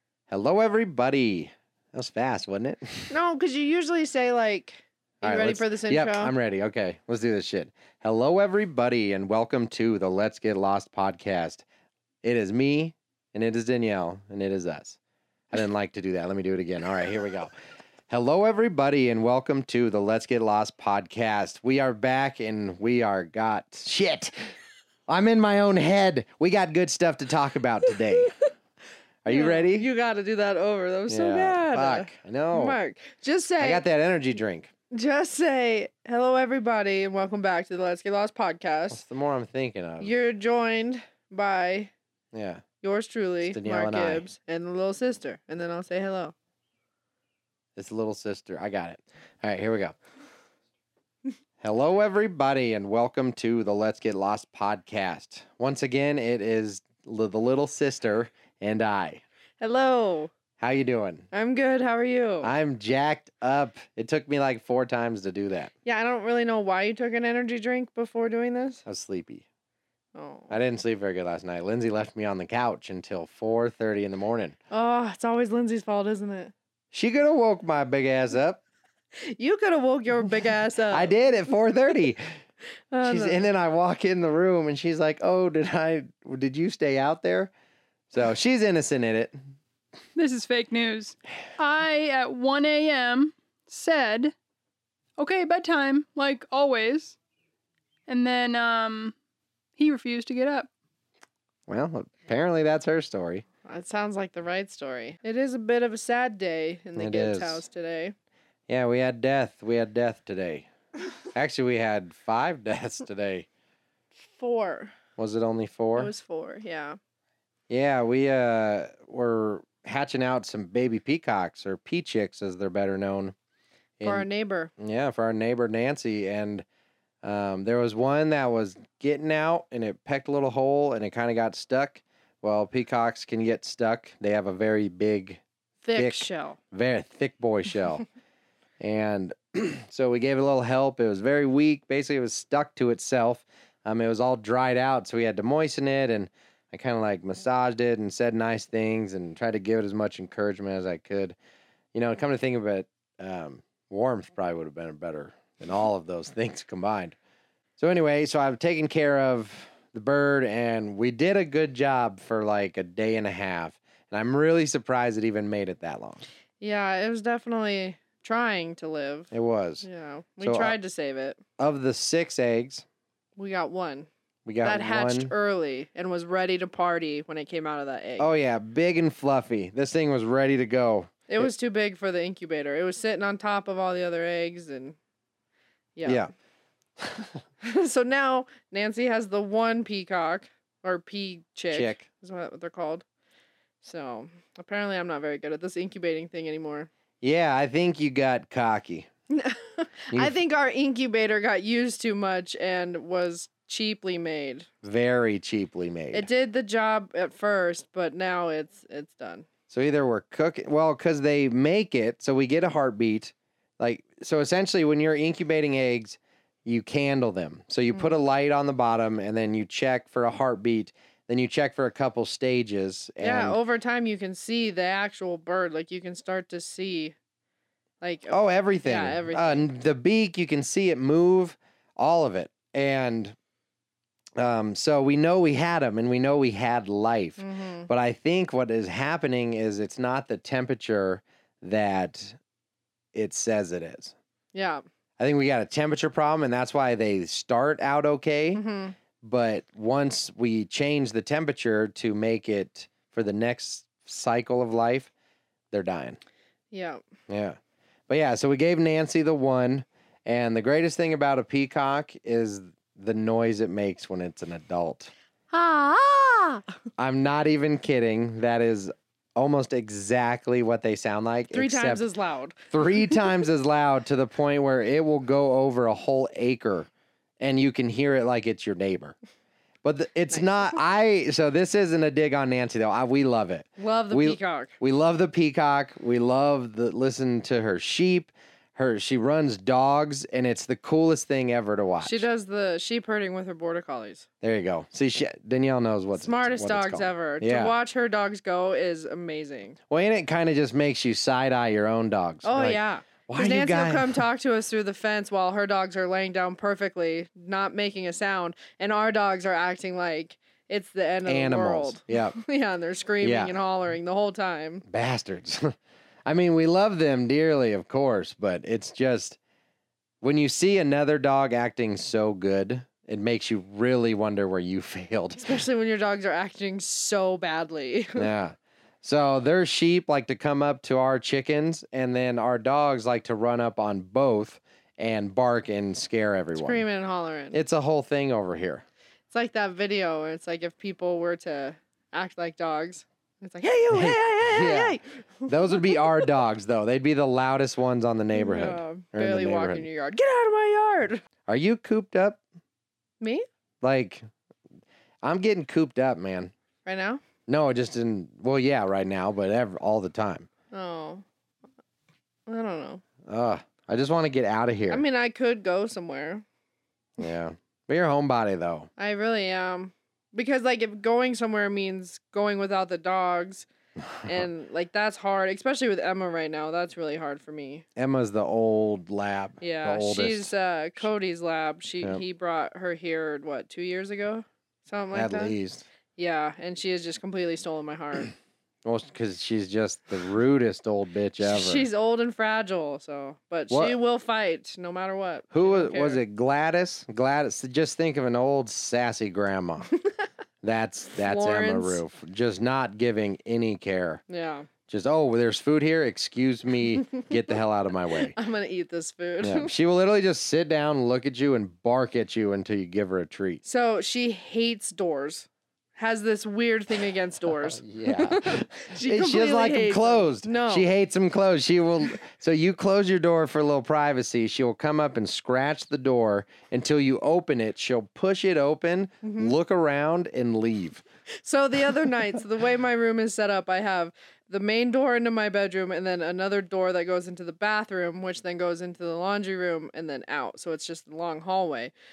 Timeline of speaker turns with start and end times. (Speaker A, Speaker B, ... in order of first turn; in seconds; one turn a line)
Speaker A: 0.3-3.1
Speaker B: 3.1-6.3
Speaker A: 5.2-11.7
Speaker A: 12.2-15.0
Speaker A: 15.5-17.5
Speaker A: 18.1-24.4
Speaker A: 25.1-28.3
Speaker A: 29.2-29.9
Speaker B: 29.3-33.8
Speaker A: 31.1-32.8
Speaker A: 33.6-34.7
Speaker B: 34.9-39.0
Speaker A: 38.9-40.1
Speaker B: 40.0-41.9
Speaker A: 42.3-42.6
Speaker B: 42.8-46.3
Speaker A: 43.5-44.3
Speaker A: 47.8-50.0
Speaker A: 51.6-59.2
Speaker B: 59.6-60.3
Speaker A: 60.6-61.3
Speaker B: 61.3-62.5
Speaker A: 62.4-65.7
Speaker B: 65.8-68.8
Speaker A: 68.9-69.5
Speaker B: 70.2-70.5
Speaker A: 70.5-74.6
Speaker B: 74.7-76.5
Speaker A: 76.9-78.6
Speaker B: 79.3-81.1
Speaker A: 80.9-82.2
Speaker B: 82.9-83.4
Speaker A: 83.0-87.5
Speaker A: 88.1-89.3
Speaker C: 90.2-94.3
Speaker C: 95.2-97.2
Speaker C: 98.1-99.1
Speaker C: 99.8-100.7
Speaker A: 101.7-103.5
Speaker B: 103.7-108.1
Speaker A: 107.0-107.6
Speaker A: 108.7-110.7
Speaker A: 111.3-113.5
Speaker B: 114.3-114.9
Speaker A: 115.2-116.1
Speaker B: 116.0-117.0
Speaker A: 117.7-123.3
Speaker A: 124.0-124.2
Speaker B: 124.0-124.7
Speaker A: 124.8-126.7
Speaker A: 127.2-135.4
Speaker B: 135.8-136.6
Speaker A: 136.0-138.1
Speaker A: 138.8-151.4
Speaker A: 151.9-157.2
Speaker A: 157.8-166.2
Speaker B: 166.6-169.3
Speaker A: 169.3-169.9
Speaker B: 169.8-171.4
Speaker A: 170.4-170.8
Speaker A: 171.6-172.8
Speaker B: 173.4-174.1
Speaker A: 174.4-175.3
Speaker B: 174.6-178.3
Speaker A: 178.2-181.5
Speaker B: 181.3-185.0
Speaker B: 186.0-186.3
Speaker A: 186.0-186.3
Speaker A: 187.0-187.3
Speaker B: 187.6-193.0
Speaker A: 191.7-192.1
Speaker B: 193.8-196.9
Speaker A: 197.2-199.1
Speaker B: 199.3-204.7
Speaker A: 204.8-206.3
Speaker B: 206.1-209.5
Speaker A: 209.7-223.6
Speaker B: 217.9-218.2
Speaker B: 223.2-227.2
Speaker B: 228.0-229.7
Speaker A: 228.3-233.3
Speaker A: 234.4-242.4
Speaker B: 237.4-237.9
Speaker A: 243.1-244.2
Speaker B: 244.5-244.8
Speaker A: 245.2-248.6
Speaker B: 248.6-249.0
Speaker A: 249.2-255.1
Speaker A: 255.7-256.2
Speaker B: 256.7-257.0
Speaker A: 257.3-257.6
Speaker A: 258.1-265.1
Speaker B: 265.5-266.6
Speaker A: 267.0-272.0
Speaker B: 271.5-273.3
Speaker A: 272.7-276.9
Speaker A: 277.4-279.2
Speaker A: 279.8-292.3
Speaker B: 283.8-284.7
Speaker B: 292.0-294.3
Speaker A: 294.4-297.7
Speaker B: 296.1-299.8
Speaker A: 299.9-304.2
Speaker B: 302.4-314.9
Speaker A: 311.3-312.4
Speaker A: 313.2-313.6
Speaker A: 314.9-319.4
Speaker A: 320.2-325.6
Speaker B: 325.4-328.3
Speaker A: 328.2-336.8
Speaker B: 336.6-337.6
Speaker A: 337.5-338.9
Speaker B: 339.3-346.3
Speaker A: 343.9-349.9
Speaker B: 348.3-351.2
Speaker A: 351.5-352.4
Speaker A: 353.8-354.2
Speaker A: 355.2-356.5
Speaker B: 356.9-357.2
Speaker A: 357.5-360.5
Speaker B: 360.7-361.2
Speaker B: 362.5-363.0
Speaker A: 363.3-365.0
Speaker B: 364.9-366.4
Speaker A: 367.2-368.9
Speaker B: 369.0-373.7
Speaker A: 374.1-374.4
Speaker B: 374.2-377.9
Speaker A: 378.0-380.5
Speaker B: 379.6-385.6
Speaker A: 385.1-385.9
Speaker B: 386.2-388.3
Speaker A: 388.8-391.9
Speaker B: 391.4-396.2
Speaker A: 393.7-394.0
Speaker A: 395.5-399.9
Speaker A: 400.6-404.2
Speaker B: 401.2-402.0
Speaker B: 404.3-404.7
Speaker A: 404.9-408.4
Speaker B: 408.3-409.7
Speaker A: 409.4-413.6
Speaker B: 413.6-420.9
Speaker A: 417.5-431.0
Speaker B: 429.2-429.6
Speaker B: 431.4-441.9